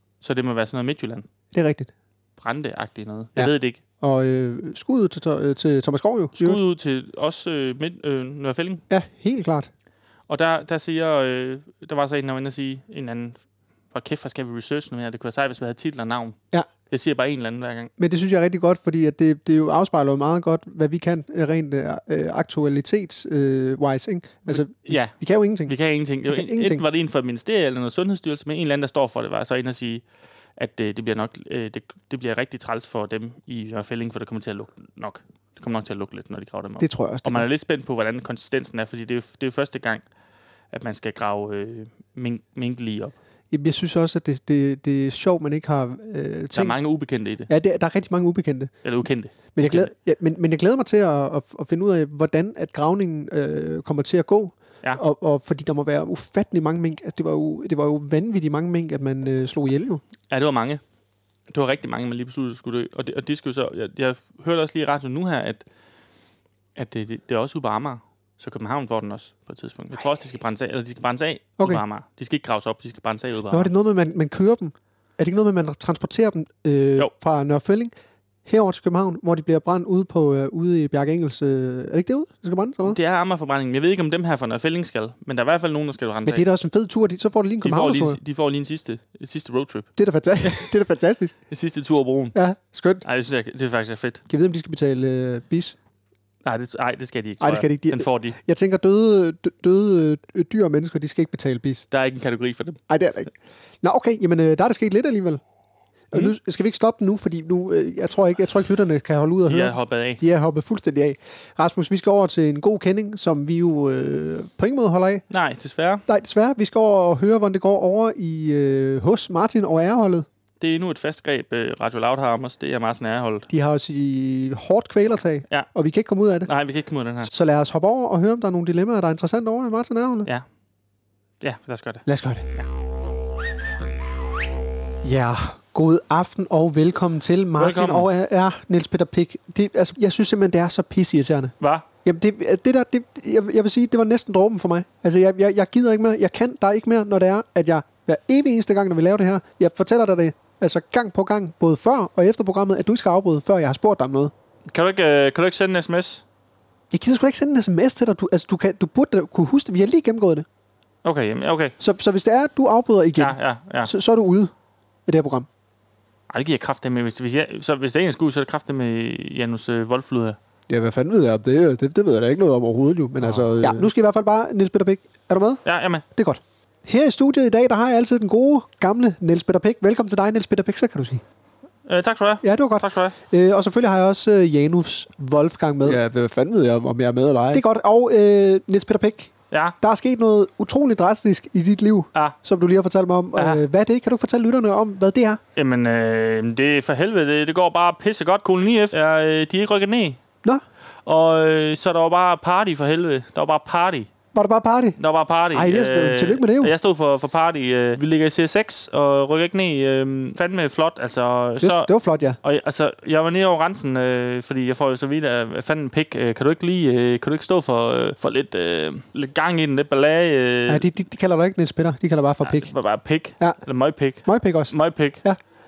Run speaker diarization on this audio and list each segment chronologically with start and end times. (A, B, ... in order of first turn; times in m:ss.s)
0:00.2-0:01.3 A
0:01.5-0:01.9 B
0:02.4-0:03.8 A
0:03.4-0:06.6 B
0:06.4-0:08.8 A
0:08.9-0:09.7 B
0:10.3-0:13.4 A
0:13.9-0:16.4 A
0:16.9-0:17.9 A
0:18.0-0:25.8 B
0:24.5-0:25.1 A
0:25.6-0:30.0 A
0:26.3-0:26.8 B
0:30.6-0:40.0 A
0:36.8-0:37.5 B
0:40.7-0:43.2 A
0:43.5-0:46.8 B
0:46.5-0:47.5 A
0:47.5-0:48.7 B
0:48.8-0:49.9 A
0:49.6-1:00.0 B
1:00.3-1:00.8 A
1:01.5-1:05.6 A
1:06.8-1:13.7 A
1:13.5-1:17.9 B
1:18.5-1:23.0 B
1:22.8-1:26.4 A
1:26.3-1:28.2 B
1:27.6-1:29.9 A
1:30.0-1:31.4 B
1:30.4-1:30.7 A
1:31.5-1:32.4 A
1:32.4-1:33.0 B
1:33.0-1:34.2 A
1:34.3-1:35.8 B
1:36.4-1:38.4 A
1:37.4-1:41.9 B
1:41.9-1:42.8 A
1:42.9-1:45.4 B
1:46.1-1:55.2 B
1:49.5-1:50.2 A
1:55.3-1:56.0 A
1:56.1-2:00.3 B
2:00.6-2:03.5 A
2:03.5-2:06.5 B
2:06.5-2:07.3 A
2:07.2-2:10.3 B
2:11.4-2:12.7 A
2:12.1-2:12.5 B
2:15.0-2:34.3 B
2:17.6-2:18.1 A
2:21.6-2:21.9 A
2:34.7-2:36.2 A
2:36.9-2:40.5 B
2:41.0-2:41.8 A
2:41.8-2:44.5 B
2:43.2-2:43.9 A
2:45.1-2:45.5 B
2:46.3-2:50.4 A
2:50.7-2:52.0 B
2:51.8-2:53.1 C
2:53.1-2:55.6 B
2:53.2-2:53.9 A
2:55.6-2:56.0 A
2:56.2-3:01.2 B
3:01.9-3:03.2 A
3:02.4-3:06.1 B
3:06.1-3:07.4 C
3:07.4-3:15.4 B
3:09.5-3:09.8 A
3:13.4-3:13.6 A
3:15.6-3:20.2 A
3:21.1-3:24.1 A
3:24.3-3:25.0 B
3:25.0-3:31.9 A
3:25.5-3:26.7 B
3:31.6-3:32.4 B
3:32.4-3:40.9 A
3:40.7-3:42.7 B
3:42.4-3:45.2 A
3:44.2-3:45.4 B